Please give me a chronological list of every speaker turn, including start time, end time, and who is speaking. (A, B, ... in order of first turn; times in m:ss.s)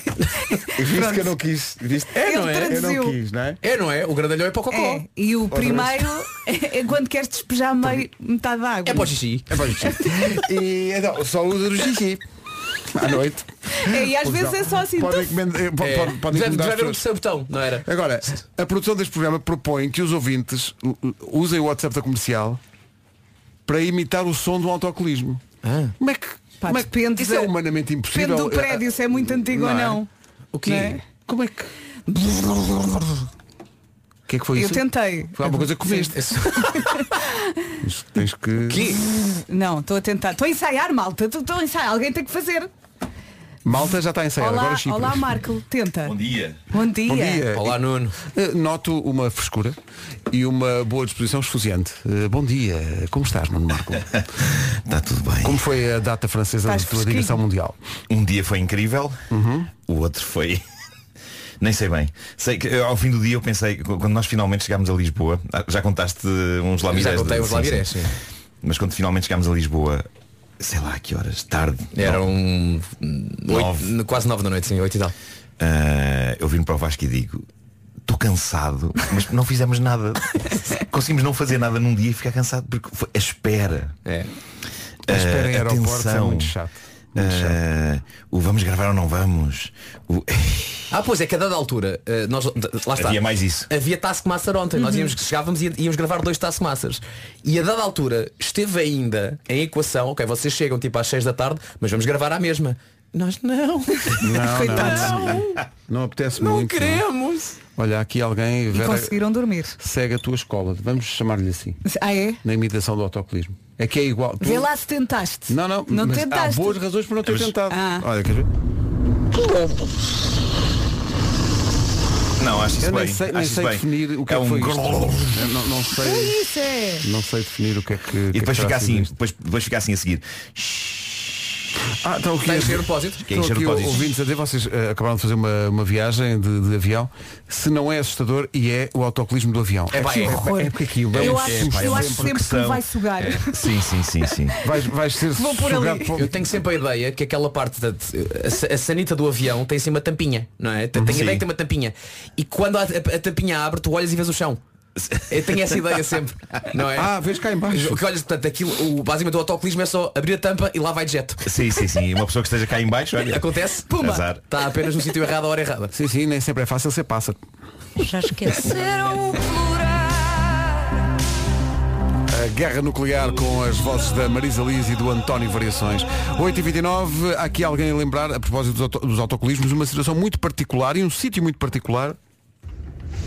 0:00.6-0:01.3 A
0:00.7-0:03.6 B
0:02.2-0:02.8 C
0:02.2-0:03.2 A
0:03.6-0:05.0 C
0:04.7-0:09.1 A
0:05.5-0:06.0 B
0:08.8-0:09.5 C
0:09.5-0:12.2 B
0:12.9-0:17.0 B
0:13.7-0:15.3 A
0:15.8-0:17.9 C
0:17.8-0:22.6 B
0:23.6-0:25.4 B
0:25.6-0:25.9 C
0:26.0-0:30.0 B
0:26.6-0:27.5 A
0:28.1-0:30.1 A
0:30.5-0:31.0 C
0:30.6-0:31.0 A
0:30.7-0:31.7 B
0:32.1-0:33.1 A
0:34.3-0:36.4 B
0:34.6-0:37.3 A
0:36.1-0:37.0 C
0:37.8-0:39.0 B
0:38.7-0:39.0 C
0:39.0-0:42.7 A
0:43.6-0:45.4 B
0:44.4-0:46.2 A
0:46.0-0:46.6 D
0:46.7-0:47.4 A
0:47.0-0:49.8 B
0:47.5-0:48.2 C
0:50.3-0:54.1 B
0:54.8-0:55.6 D
0:55.4-0:57.8 B
0:56.6-0:57.4 A
0:58.1-0:59.2 D
0:59.3-0:59.7 B
0:59.8-1:00.6 D
1:01.6-1:08.0 D
1:06.9-1:08.1 C
1:08.6-1:10.0 D
1:10.6-1:12.2 D
1:11.9-1:15.1 C
1:13.5-1:13.9 D
1:15.6-1:17.4 D
1:18.0-1:23.9 D
1:24.0-1:24.3 C
1:25.1-1:26.5 D
1:25.1-1:27.6 B
1:27.2-1:30.9 D
1:30.9-1:45.6 C
1:33.0-1:33.7 D
1:34.7-1:35.1 A
1:44.0-1:45.4 A
1:44.2-1:47.0 B
1:46.4-1:47.6 C
1:47.8-1:49.2 B
1:48.7-1:49.8 A
1:49.8-1:51.8 B
1:51.8-1:52.4 A
1:52.4-1:54.7 B
1:54.4-1:56.8 A
1:55.5-1:58.5 B
1:57.7-1:58.0 A
2:02.4-2:05.4 D
2:02.8-2:06.4 B
2:06.0-2:07.0 A
2:07.0-2:09.1 B
2:08.3-2:11.0 D
2:12.0-2:22.4 B
2:12.4-2:13.2 C
2:13.3-2:14.0 D
2:19.9-2:20.4 C
2:20.2-2:23.7 A
2:21.2-2:24.6 D
2:24.6-2:26.4 B
2:25.3-2:26.2 A
2:26.2-2:34.6 C
2:30.9-2:31.2 B
2:31.1-2:31.4 D
2:35.3-2:37.1 C
2:36.9-2:38.0 B
2:37.7-2:41.4 C
2:41.4-2:44.4 D
2:43.3-2:43.9 C
2:43.9-2:44.2 A
2:44.5-2:45.9 C
2:45.9-2:47.4 B
2:52.3-3:02.2 B